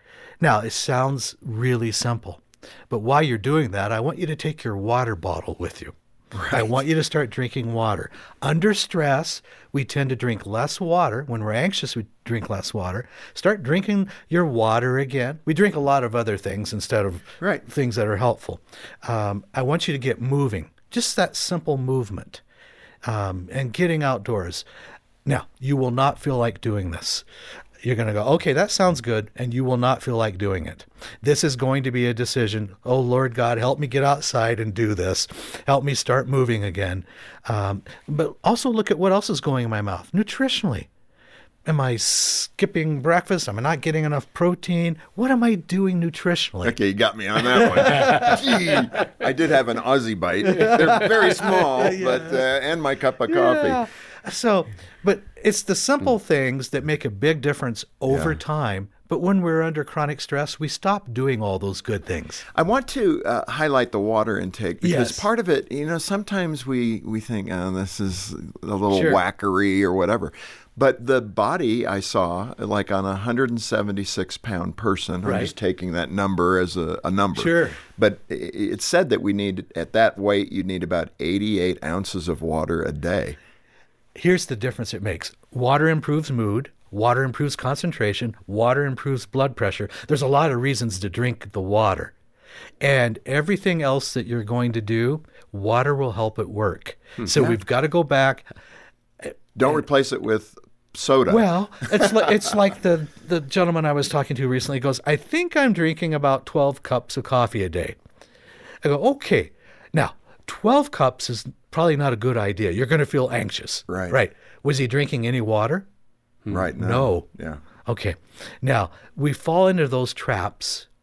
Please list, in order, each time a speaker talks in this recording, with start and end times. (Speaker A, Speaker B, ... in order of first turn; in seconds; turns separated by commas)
Speaker A: 0.4-5.9, Speaker B: 6.3-6.8, Speaker A: 6.5-22.4, Speaker B: 17.4-17.6, Speaker A: 23.0-24.6, Speaker A: 25.2-27.2, Speaker A: 27.8-40.9, Speaker A: 41.6-46.8, Speaker B: 46.6-53.8, Speaker A: 47.5-48.4, Speaker A: 50.5-52.4, Speaker A: 53.3-62.4, Speaker B: 58.1-58.4, Speaker B: 62.5-83.4, Speaker A: 64.8-65.2, Speaker A: 68.9-69.2, Speaker A: 75.2-75.5, Speaker A: 77.3-77.8, Speaker A: 84.2-92.1, Speaker A: 92.8-98.5, Speaker B: 97.2-97.6, Speaker B: 99.5-102.5, Speaker A: 101.3-108.0, Speaker A: 108.8-115.9, Speaker B: 113.9-114.2, Speaker B: 116.5-117.6, Speaker A: 116.7-117.2, Speaker A: 117.8-120.9